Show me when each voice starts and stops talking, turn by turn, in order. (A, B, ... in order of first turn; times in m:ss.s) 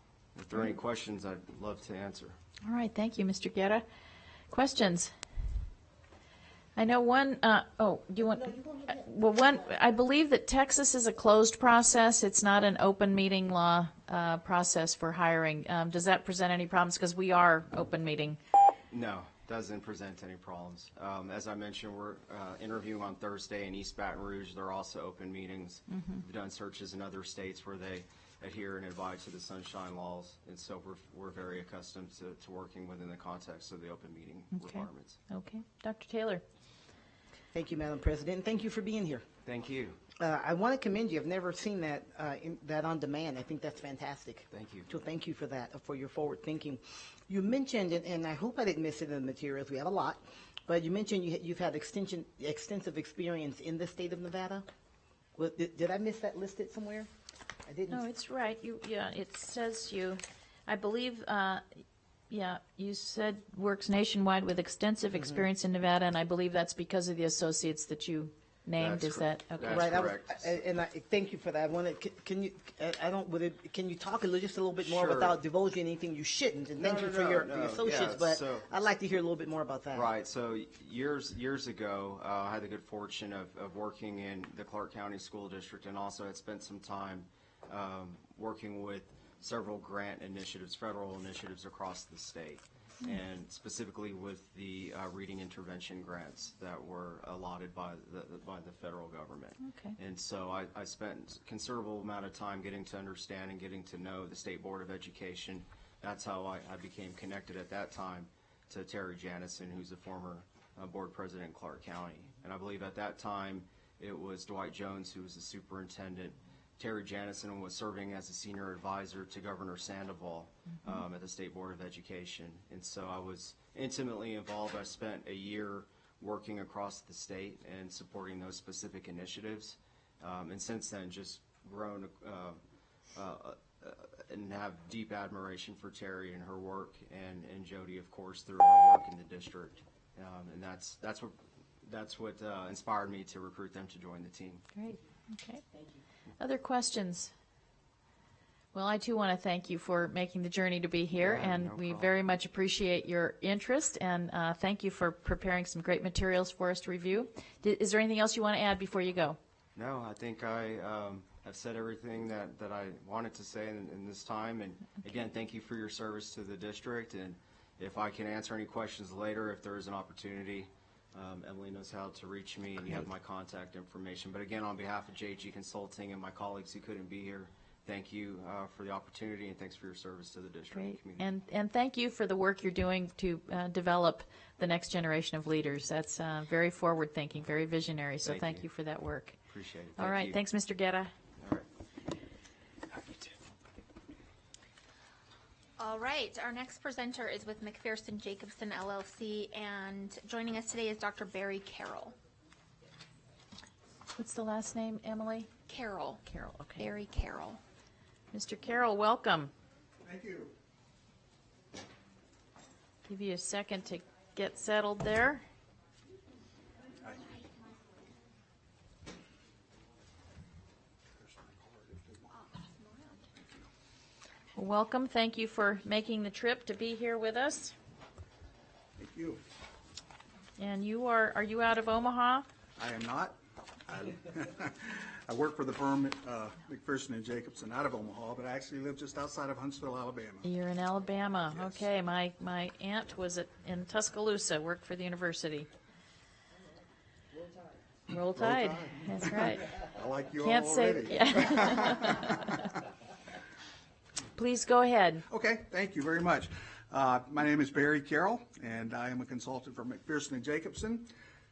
0:00.3-0:02.4 A
0:02.6-0:03.8 B
0:04.5-0:05.1 B
0:06.8-0:18.4 B
0:18.9-0:35.2 A
0:25.9-0:26.2 B
0:34.5-0:36.4 B
0:37.5-0:39.2 C
0:39.4-0:40.0 A
0:40.2-0:54.6 C
0:44.5-0:44.9 A
0:55.4-0:57.1 C
0:57.6-0:58.0 C
0:57.9-1:09.9 B
1:08.8-1:10.6 A
1:09.7-1:20.1 C
1:14.8-1:15.4 A
1:16.8-1:18.7 A
1:19.9-2:12.6 A
1:39.6-1:40.0 B
2:13.1-2:24.6 A
2:24.7-2:25.6 B
2:26.4-2:27.3 B
2:28.7-2:39.4 B
2:31.2-2:32.1 A
2:39.8-3:01.3 A
3:00.7-3:09.4 B
3:08.2-3:08.7 A
3:09.5-3:10.4 A
3:10.0-3:11.1 B
3:11.4-3:11.7 A
3:15.8-3:22.2 D
3:24.2-3:25.5 B
3:25.7-3:26.2 D
3:26.2-3:26.9 B
3:26.8-3:27.6 D
3:28.3-3:29.5 B
3:30.0-3:30.5 E
3:33.1-3:35.4 B
3:41.2-3:42.3 E
3:42.3-3:43.3 D
3:44.6-3:47.7 B
3:49.0-3:49.4 E
3:50.6-3:52.4 B
3:52.8-4:00.5 E
4:00.4-4:05.7 B
4:01.5-4:01.8 E
4:08.1-4:09.8 B
4:08.3-4:12.0 E
4:10.4-4:12.7 B
4:14.3-4:15.2 B
4:15.3-4:21.1 E